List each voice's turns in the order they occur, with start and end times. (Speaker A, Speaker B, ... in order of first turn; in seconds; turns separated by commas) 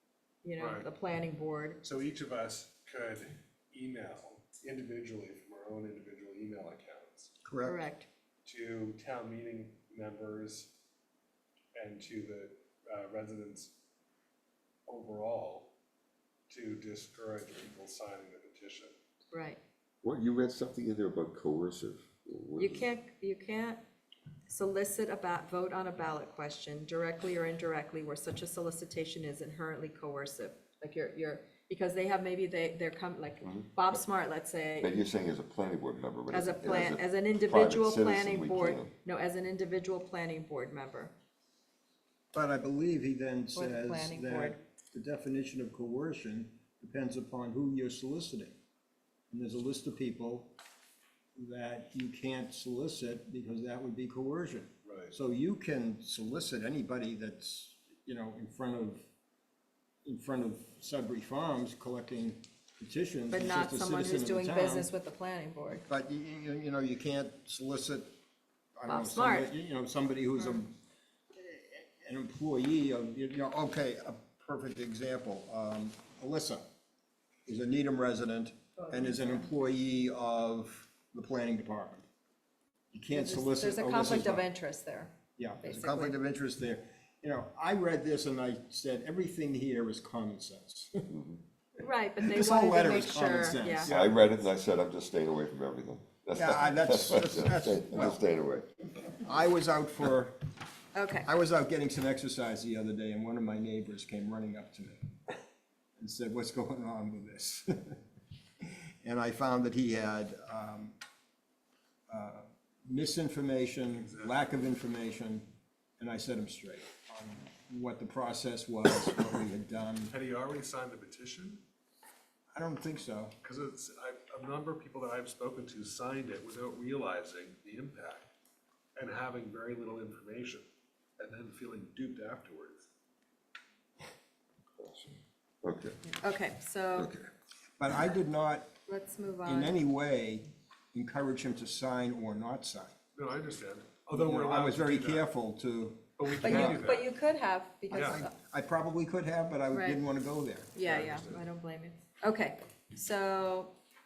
Speaker A: 0.4-1.8, Speaker B: 0.6-0.9, Speaker B: 1.8-7.3, Speaker C: 7.4-7.8, Speaker A: 7.7-8.1, Speaker B: 8.4-10.7, Speaker B: 11.8-13.7, Speaker B: 14.9-15.7, Speaker B: 16.5-18.9, Speaker A: 19.3-19.6, Speaker D: 20.0-22.9, Speaker A: 22.6-23.8, Speaker A: 24.5-34.9, Speaker D: 33.4-33.7, Speaker D: 34.8-38.9, Speaker A: 36.3-41.1, Speaker C: 42.3-48.5, Speaker A: 43.5-44.5, Speaker C: 49.3-50.5, Speaker C: 51.4-59.0, Speaker B: 54.8-55.1, Speaker C: 60.0-64.9, Speaker A: 63.3-65.8, Speaker C: 65.9-68.1, Speaker C: 68.8-70.7, Speaker A: 68.9-69.5, Speaker C: 71.3-76.6, Speaker C: 77.5-82.1, Speaker A: 78.9-79.2, Speaker C: 82.9-84.5, Speaker A: 83.1-86.1, Speaker C: 85.4-91.1, Speaker D: 91.1-91.4, Speaker A: 91.8-93.9, Speaker C: 92.2-94.3, Speaker D: 93.9-98.7, Speaker C: 96.3-98.2, Speaker C: 99.1-100.4, Speaker A: 100.9-101.2, Speaker C: 101.2-105.1, Speaker C: 106.0-108.0, Speaker C: 109.0-111.0, Speaker C: 112.1-120.1, Speaker B: 113.9-114.4, Speaker B: 120.1-121.6, Speaker C: 122.5-123.3, Speaker B: 123.4-128.3, Speaker B: 128.9-130.6, Speaker B: 131.2-132.9, Speaker D: 134.8-136.0, Speaker A: 136.1-137.1, Speaker D: 136.9-137.3, Speaker C: 137.8-138.7, Speaker A: 138.9-139.7, Speaker C: 139.4-142.9, Speaker B: 143.2-145.3, Speaker C: 144.1-146.8, Speaker B: 146.2-147.1, Speaker A: 146.4-148.2, Speaker B: 147.9-148.2, Speaker C: 147.9-150.7, Speaker A: 149.7-150.0, Speaker A: 150.7-153.7, Speaker B: 150.8-151.4